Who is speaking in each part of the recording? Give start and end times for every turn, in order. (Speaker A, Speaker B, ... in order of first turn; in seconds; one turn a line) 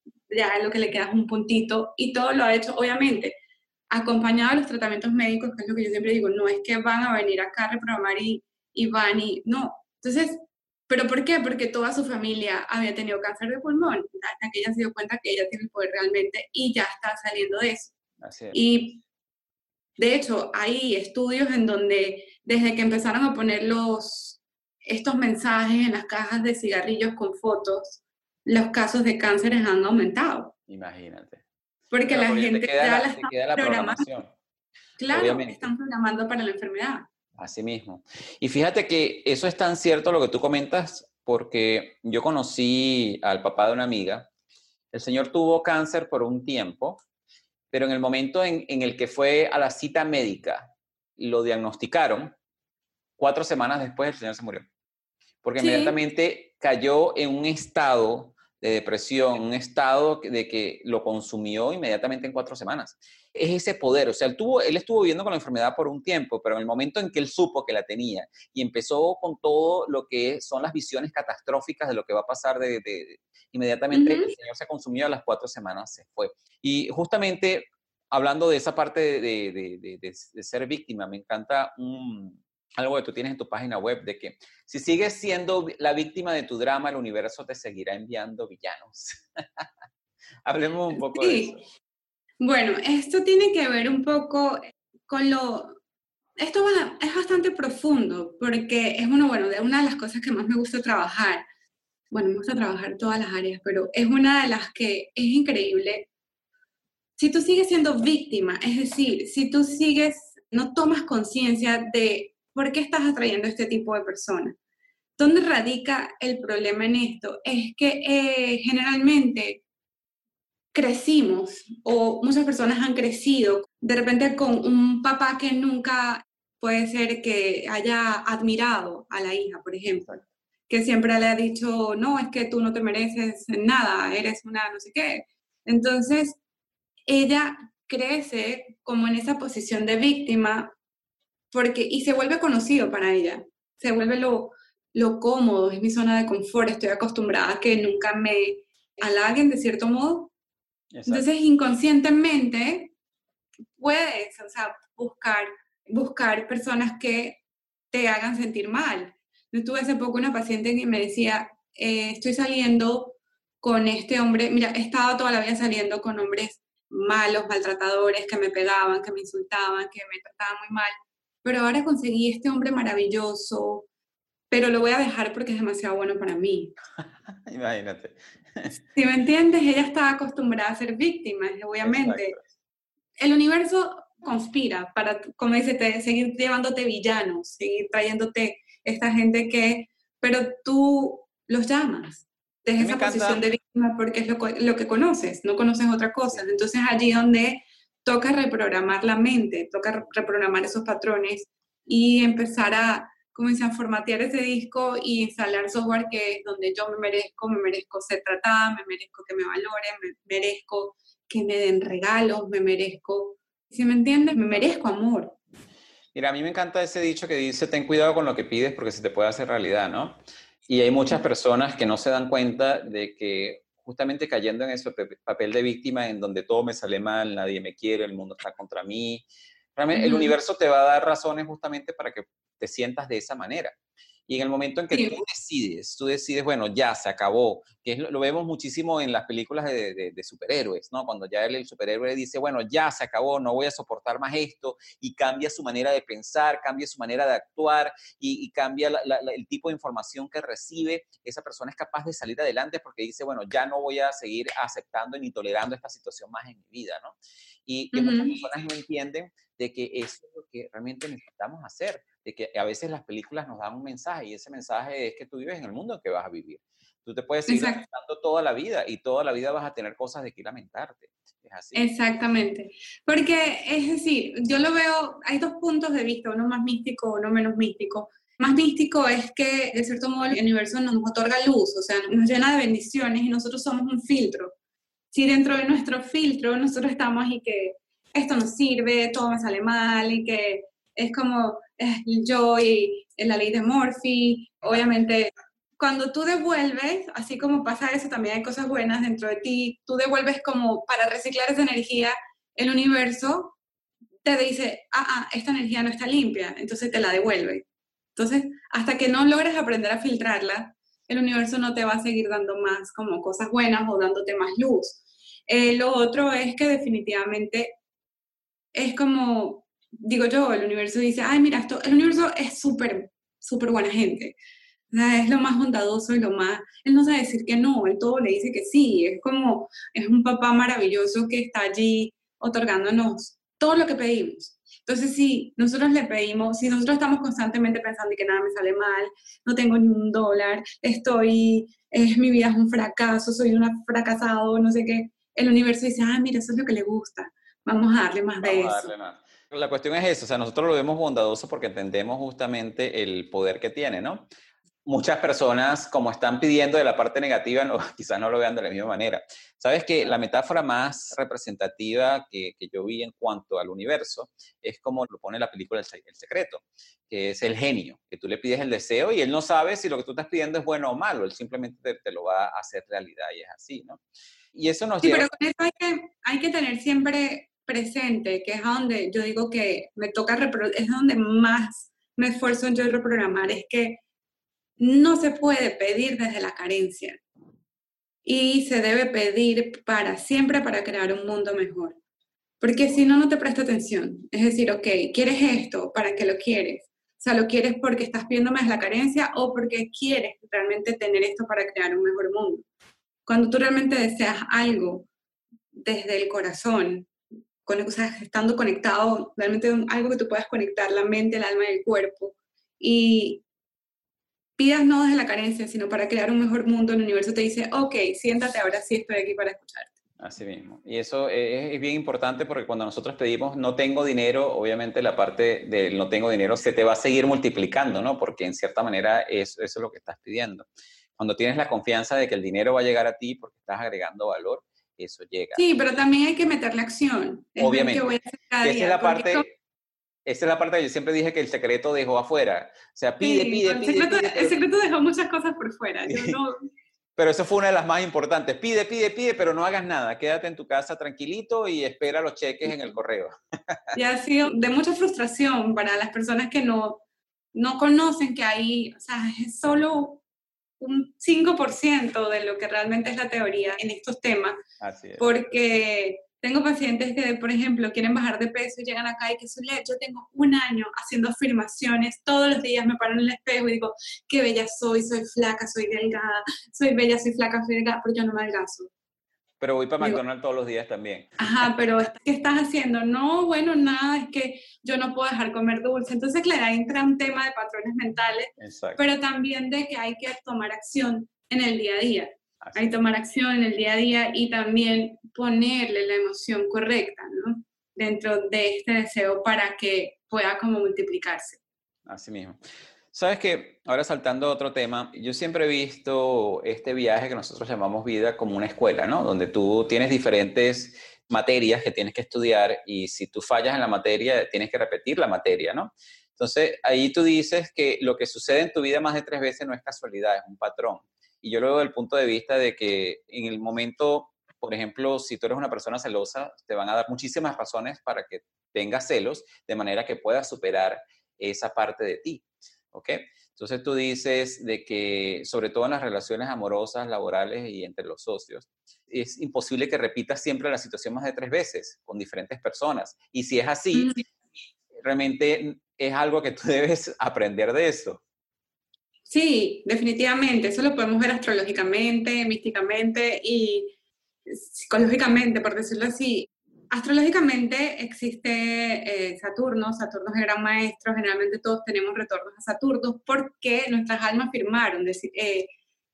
Speaker A: 0.3-3.4
Speaker A: 3.9-17.9
Speaker B: 18.2-18.6
Speaker A: 18.5-19.0
Speaker A: 20.0-30.5
Speaker B: 30.7-31.4
Speaker A: 31.9-34.1
Speaker B: 32.1-34.3
Speaker A: 35.0-37.0
Speaker B: 35.1-35.7
Speaker B: 37.4-44.3
Speaker B: 44.9-47.0
Speaker B: 47.7-52.3
Speaker B: 53.2-54.7
Speaker B: 55.4-89.7
Speaker A: 55.6-56.0
Speaker A: 73.9-74.3
Speaker B: 90.5-91.6
Speaker A: 90.9-91.5
Speaker A: 92.4-95.8
Speaker A: 96.4-101.4
Speaker A: 102.1-106.1
Speaker A: 107.2-114.6
Speaker A: 115.2-119.6
Speaker A: 120.7-130.1
Speaker B: 129.9-130.2
Speaker A: 130.7-136.4
Speaker A: 137.1-140.7
Speaker A: 141.5-150.3
Speaker B: 150.9-151.2
Speaker A: 151.1-152.9
Speaker A: 153.8-157.4
Speaker A: 157.9-173.9
Speaker A: 174.5-176.7
Speaker B: 177.0-178.8
Speaker A: 178.9-182.4
Speaker B: 181.8-182.4
Speaker A: 183.2-215.4
Speaker B: 192.8-193.4
Speaker B: 216.2-229.2
Speaker B: 229.8-233.8
Speaker A: 229.9-230.3
Speaker B: 234.3-271.9
Speaker A: 234.9-235.2
Speaker A: 257.9-258.4
Speaker A: 267.5-267.9
Speaker A: 271.8-284.6
Speaker A: 285.1-303.6
Speaker A: 304.2-307.6
Speaker A: 308.2-317.7
Speaker A: 318.7-324.4
Speaker A: 324.9-348.9
Speaker B: 348.4-354.3
Speaker B: 354.9-374.0
Speaker B: 374.6-375.3
Speaker A: 375.0-384.0
Speaker A: 384.8-387.2
Speaker A: 388.2-392.0
Speaker A: 392.6-402.7
Speaker A: 403.3-405.1
Speaker A: 405.7-407.1
Speaker A: 407.6-413.4
Speaker A: 414.6-419.9
Speaker B: 420.2-430.7
Speaker B: 431.2-435.6
Speaker A: 435.5-439.5
Speaker B: 437.6-439.4
Speaker B: 440.3-444.6
Speaker A: 443.2-446.7
Speaker B: 446.1-446.4
Speaker B: 447.2-453.9
Speaker A: 453.9-457.0
Speaker A: 457.5-460.2
Speaker A: 460.8-464.6
Speaker B: 464.8-465.3
Speaker A: 465.2-478.9
Speaker B: 479.6-481.7
Speaker A: 481.4-501.6
Speaker B: 488.6-489.0
Speaker B: 492.6-493.0
Speaker B: 502.1-502.6
Speaker B: 503.1-544.1
Speaker A: 543.9-544.2
Speaker B: 545.0-548.2
Speaker A: 549.3-553.9
Speaker A: 554.5-565.7